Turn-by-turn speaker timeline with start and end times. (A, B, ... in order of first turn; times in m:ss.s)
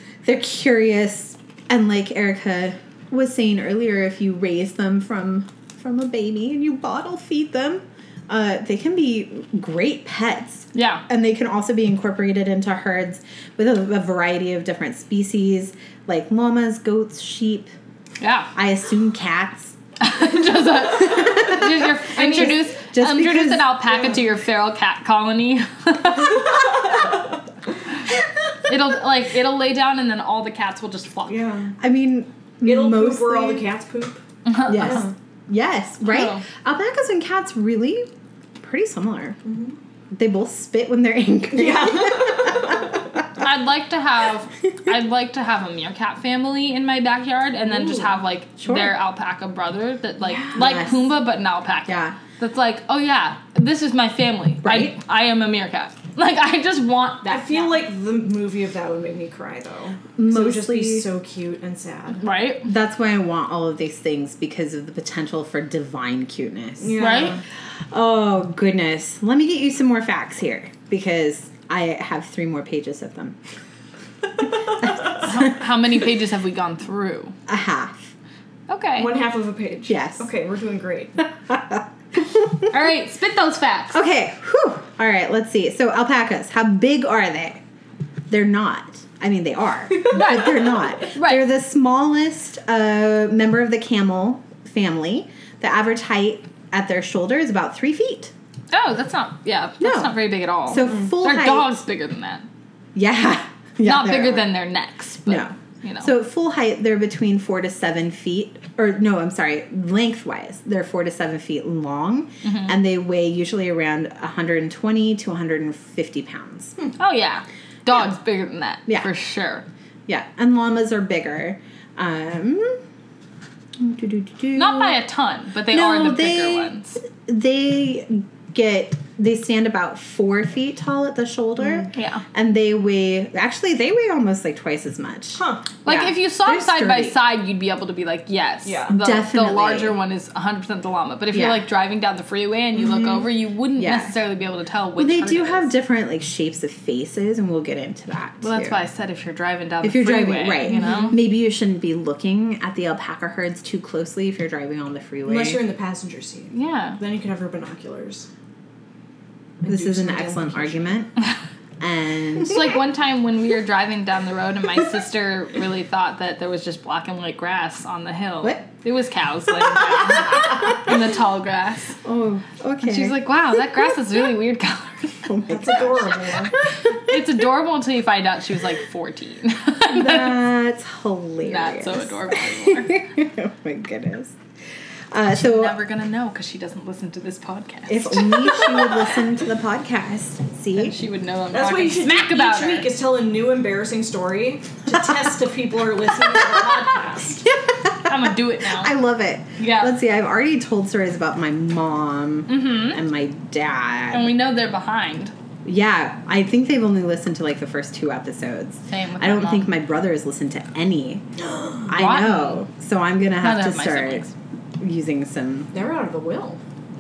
0:00.2-0:17.7 A
0:10.7-0:11.0 B
0:18.2-0:18.5 B
0:18.6-0:19.8 A
0:20.0-0:26.6 B
0:21.1-0:23.8 A
0:28.7-0:31.4 B
0:31.3-0:31.8 C
0:31.8-0:33.6 A
0:32.6-0:35.1 C
0:34.5-0:35.0 B
0:34.7-0:39.4 A
0:36.0-0:36.4 B
0:39.5-0:39.8 C
0:40.1-0:43.0 A
0:41.5-0:43.0 C
0:43.4-0:57.8 B
0:48.6-0:49.0 A
0:50.4-0:51.0 A
0:51.9-0:52.2 A
0:54.6-0:54.9 A
0:57.3-1:02.2 C
1:00.2-1:01.1 A
1:02.2-1:02.7 B
1:02.6-1:07.0 A
1:06.8-1:07.4 C
1:07.0-1:07.4 B
1:07.9-1:13.4 A
1:15.1-1:15.5 A
1:15.2-1:17.4 B
1:17.5-1:18.1 A
1:18.7-1:19.1 B
1:19.0-1:21.2 C
1:19.9-1:20.3 A
1:21.5-1:22.6 A
1:22.6-1:24.0 B
1:23.9-1:27.6 A
1:28.3-1:38.3 A
1:30.1-1:31.5 B
1:38.7-1:42.5 B
1:39.8-1:41.8 A
1:43.0-1:44.5 A
1:43.8-1:46.1 B
1:45.3-1:56.8 A
1:52.4-1:52.7 B
1:57.0-1:59.7 B
2:00.1-2:02.8 A
2:03.8-2:05.0 A
2:04.5-2:07.0 B
2:05.7-2:17.2 A
2:11.6-2:11.9 C
2:11.9-2:12.2 B
2:15.4-2:15.6 C
2:15.8-2:25.7 B
2:18.6-2:19.0 C
2:18.9-2:20.0 A
2:21.3-2:21.6 A
2:23.8-2:24.2 A
2:25.0-2:28.8 A
2:28.4-2:31.2 B
2:29.8-2:35.6 A
2:30.7-2:31.1 C
2:35.2-2:38.3 C
2:36.5-2:37.0 B
2:39.6-2:41.0 C
2:39.7-2:41.1 A
2:41.8-2:42.8 A
2:42.4-2:52.0 B
2:52.0-2:53.2 A
2:52.8-2:55.4 B
2:55.3-2:56.2 A
2:55.5-2:56.5 C
2:56.8-2:57.2 A
2:56.9-3:00.4 B
2:59.9-3:04.4 A
3:01.4-3:03.0 B
3:05.1-3:05.8 A
3:05.4-3:08.8 B
3:07.9-3:11.0 A
3:10.8-3:12.9 B
3:11.5-3:17.4 C
3:17.4-3:24.4 A
3:18.0-3:19.0 B
3:19.6-3:19.9 B
3:22.5-3:23.0 B
3:24.1-3:25.3 B
3:25.6-3:31.2 A
3:28.9-3:29.7 B
3:31.5-3:31.8 C
3:31.9-3:35.7 A
3:32.0-3:32.6 B
3:33.4-3:34.3 B
3:35.7-3:36.6 C